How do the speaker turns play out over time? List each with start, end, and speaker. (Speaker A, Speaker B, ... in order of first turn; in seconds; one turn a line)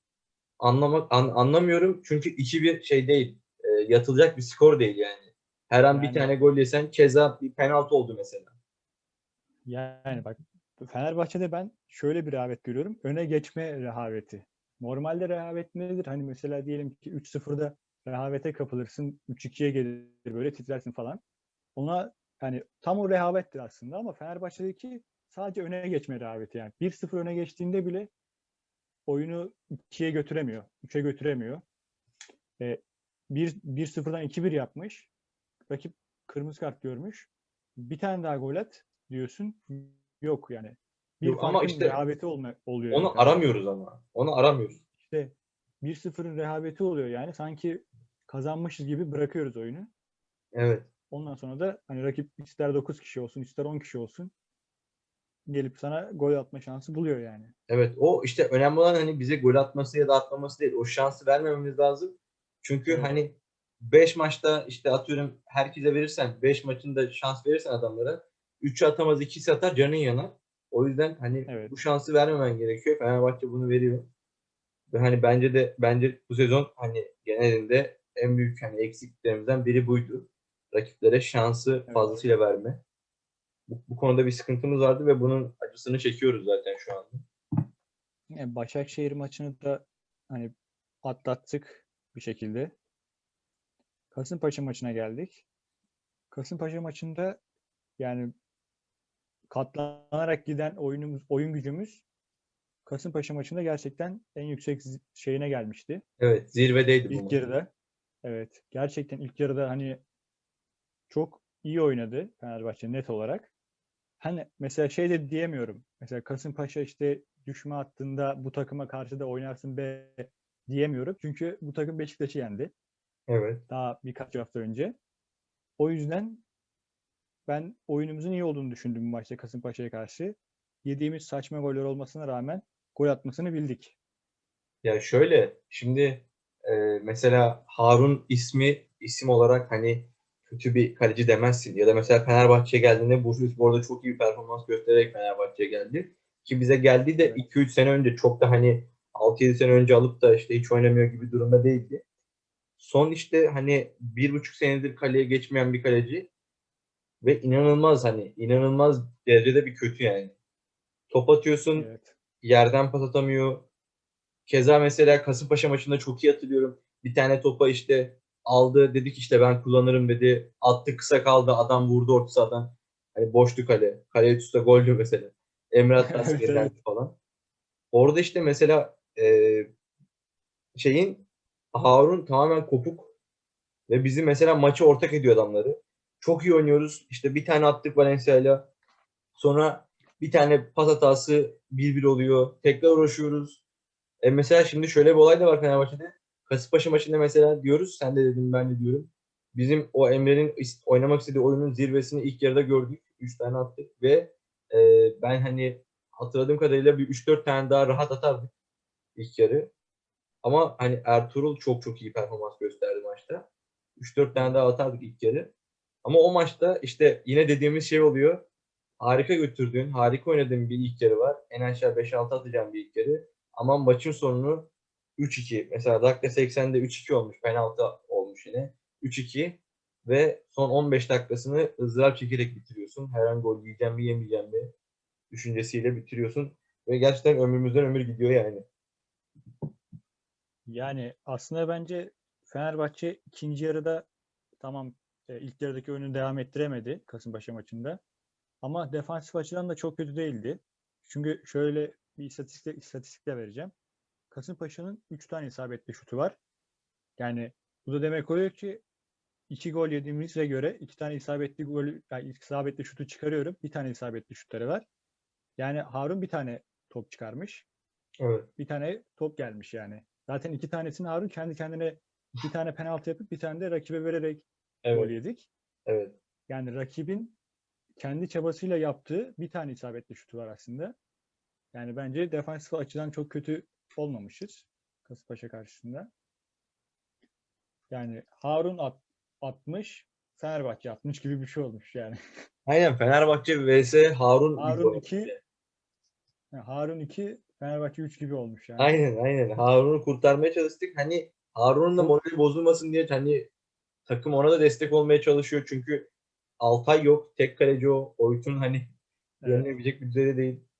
Speaker A: 0.6-8.5
Speaker B: 5.9-6.3
Speaker B: 9.7-21.2
Speaker B: 21.8-28.1
Speaker B: 29.1-31.6
Speaker B: 32.6-35.1
Speaker B: 35.7-43.4
Speaker A: 41.2-42.0
Speaker A: 42.9-44.8
Speaker B: 45.0-49.9
Speaker A: 50.5-50.9
Speaker B: 51.1-54.3
Speaker B: 55.5-57.5
Speaker A: 57.7-74.1
Speaker B: 71.5-71.8
Speaker A: 74.9-82.8
Speaker B: 81.9-82.2
Speaker A: 83.7-87.2
Speaker B: 88.3-90.5
Speaker B: 91.0-92.7
Speaker B: 94.1-95.4
Speaker B: 96.3-97.4
Speaker B: 98.0-98.3
Speaker B: 99.5-102.0
Speaker B: 102.8-106.0
Speaker A: 106.2-107.4
Speaker B: 107.1-107.7
Speaker B: 108.2-110.0
Speaker B: 111.1-113.5
Speaker B: 114.2-122.7
Speaker A: 123.3-123.6
Speaker B: 123.7-124.9
Speaker B: 125.8-126.4
Speaker B: 127.5-133.9
Speaker A: 134.8-152.0
Speaker A: 152.8-156.3
Speaker A: 157.2-160.3
Speaker A: 161.1-161.9
Speaker B: 161.8-162.1
Speaker A: 162.4-163.7
Speaker A: 164.5-177.2
Speaker B: 176.0-176.7
Speaker A: 177.9-179.7
Speaker A: 180.8-183.1
Speaker A: 183.9-188.7
Speaker A: 189.3-193.6
Speaker A: 194.2-208.5
Speaker A: 209.2-209.7
Speaker A: 210.4-215.5
Speaker A: 216.0-218.4
Speaker A: 219.0-234.7
Speaker A: 235.3-238.6
Speaker B: 240.7-244.1
Speaker B: 244.6-248.0
Speaker B: 248.6-253.7
Speaker B: 254.3-256.4
Speaker B: 257.2-258.8
Speaker B: 259.5-264.8
Speaker B: 265.6-267.6
Speaker A: 268.2-268.5
Speaker B: 268.6-275.5
Speaker A: 274.8-275.1
Speaker A: 275.9-276.1
Speaker B: 276.5-277.4
Speaker B: 278.0-280.9
Speaker B: 281.7-286.1
Speaker B: 287.9-292.2
Speaker A: 292.6-295.4
Speaker B: 294.6-295.4
Speaker B: 296.5-298.9
Speaker A: 298.8-303.5
Speaker A: 304.1-306.1
Speaker A: 306.6-308.9
Speaker B: 309.4-309.7
Speaker A: 309.4-310.6